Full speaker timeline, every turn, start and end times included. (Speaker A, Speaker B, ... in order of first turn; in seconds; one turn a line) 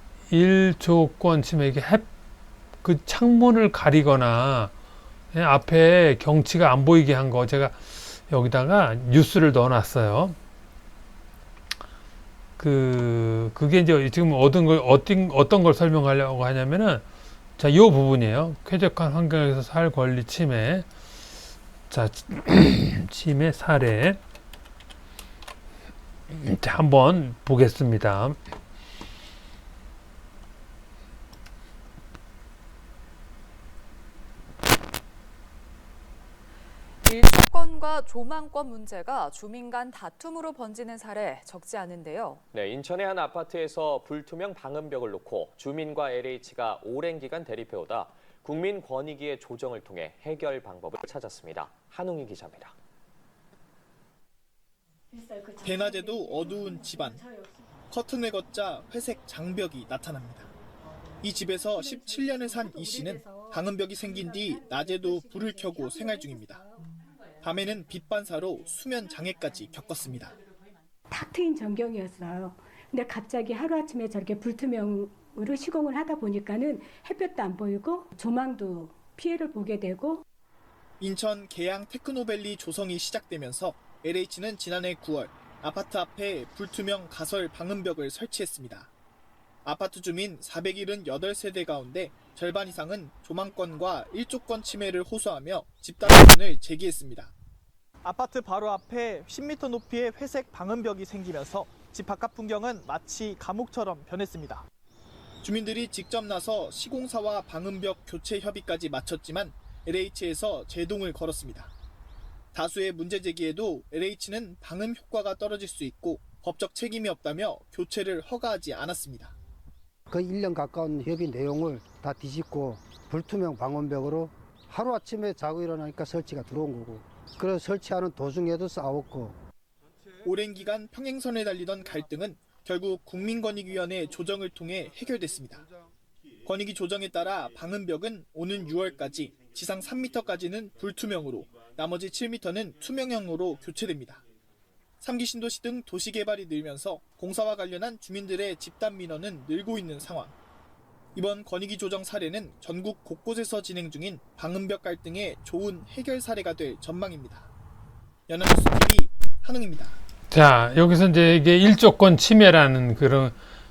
Speaker A: 0.3-2.1
Speaker A: 2.8-4.7
Speaker A: 5.3-10.3
Speaker A: 12.6-17.0
Speaker A: 17.6-20.9
Speaker A: 21.9-24.2
Speaker A: 26.3-28.4
Speaker B: 37.0-42.4
Speaker C: 42.5-52.7
Speaker D: 55.1-57.6
Speaker E: 55.6-57.2
Speaker E: 57.9-60.5
Speaker E: 61.2-66.6
Speaker D: 61.5-66.8
Speaker E: 67.4-70.3
Speaker D: 71.1-80.2
Speaker E: 81.0-88.9
Speaker E: 89.6-97.3
Speaker E: 98.0-104.7
Speaker E: 105.4-111.7
Speaker E: 112.5-119.3
Speaker F: 120.1-129.4
Speaker E: 130.2-135.7
Speaker E: 136.4-144.2
Speaker E: 145.0-150.3
Speaker E: 151.1-157.5
Speaker E: 158.3-160.0
Speaker A: 160.3-163.3